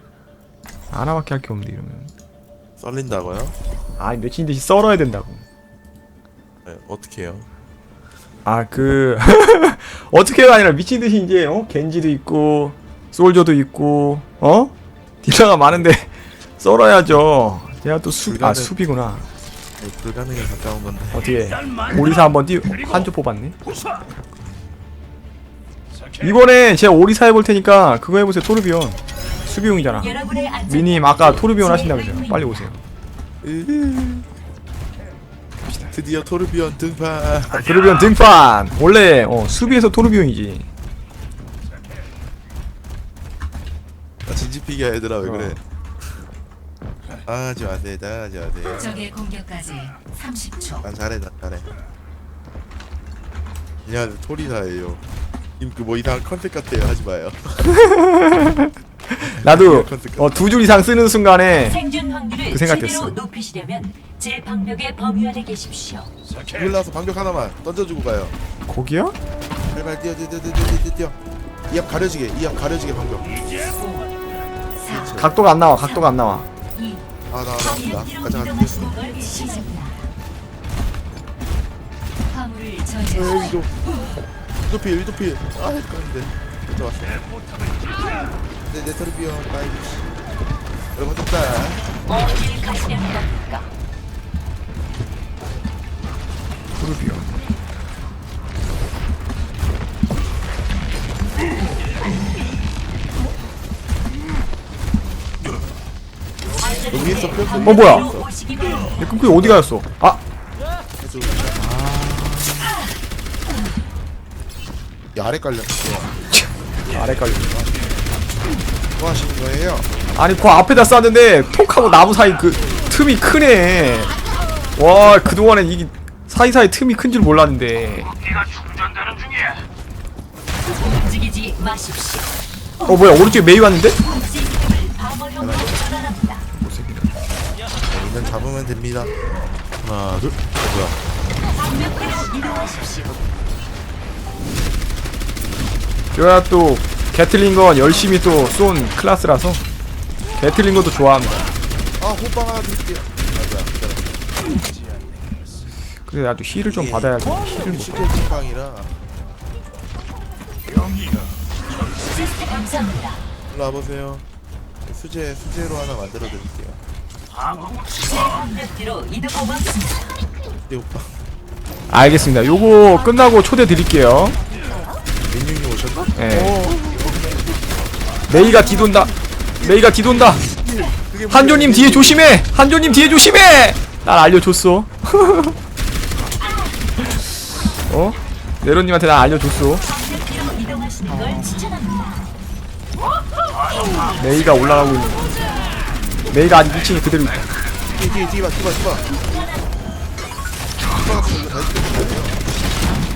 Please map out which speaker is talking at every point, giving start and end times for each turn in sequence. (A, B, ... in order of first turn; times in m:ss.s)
0:00.9-0:02.1 A
0:02.8-0:03.6 B
0:04.0-0:05.4 A
0:06.6-0:07.5 B
0:08.4-0:19.3 A
0:18.2-0:18.7 B
0:19.8-0:21.3 B
0:21.1-0:23.6 A
0:26.2-0:32.8 A
0:30.2-0:30.7 C
0:33.4-0:34.2 B
0:35.9-0:37.9 B
0:37.5-0:40.7 A
0:44.3-0:45.6 B
0:45.2-0:45.6 A
0:47.2-0:49.1 B
0:48.9-0:50.8 C
0:50.8-0:51.7 B
0:53.8-0:55.0 B
0:55.6-0:57.8 B
0:57.8-1:01.8 A
0:59.2-1:00.3 B
1:01.9-1:06.1 C
1:02.4-1:03.2 A
1:06.5-1:08.4 B
1:08.7-1:09.2 A
1:09.7-1:11.2 B
1:11.7-1:13.4 B
1:14.8-1:15.4 B
1:15.0-1:16.5 A
1:17.3-1:19.6 B
1:18.8-1:20.0 C
1:22.3-1:23.5 C
1:23.0-1:23.8 B
1:24.6-1:27.2 B
1:28.7-1:30.2 B
1:30.9-1:31.9 B
1:32.2-1:33.6 C
1:36.8-1:37.3 A
1:46.8-1:48.4 B
1:47.6-1:48.1 A
1:48.9-1:50.2 A
1:49.3-1:49.7 B
1:51.0-1:51.7 B
1:51.6-1:52.8 A
1:55.1-1:56.2 B
1:56.3-1:57.5 A
1:56.9-1:57.7 B
1:59.0-1:59.9 B
2:00.2-2:04.2 A
2:04.8-2:08.2 A
2:10.8-2:12.3 C
2:12.8-2:14.0 A
2:14.2-2:16.4 C
2:15.4-2:15.9 B
2:16.6-2:17.2 A
2:17.9-2:19.1 B
2:19.8-2:21.0 B
2:21.6-2:23.1 C
2:26.2-2:29.6 A
2:30.4-2:31.5 A
2:32.0-2:34.3 B
2:36.0-2:38.2 A
2:36.5-2:38.9 B
2:42.3-2:43.2 C
2:43.5-2:44.2 B
2:44.8-2:46.8 B
2:48.0-2:49.9 C
2:50.6-2:51.2 B
2:51.9-2:54.4 A
2:55.3-2:57.4 B
2:56.2-2:56.7 A
2:58.3-3:00.4 A
2:59.6-3:02.4 B
3:01.3-3:05.6 A
3:07.9-3:09.9 A
3:10.1-3:12.3 C
3:11.1-3:11.7 A
3:14.2-3:15.3 A
3:16.3-3:17.5 A
3:17.9-3:19.1 B
3:20.9-3:22.4 B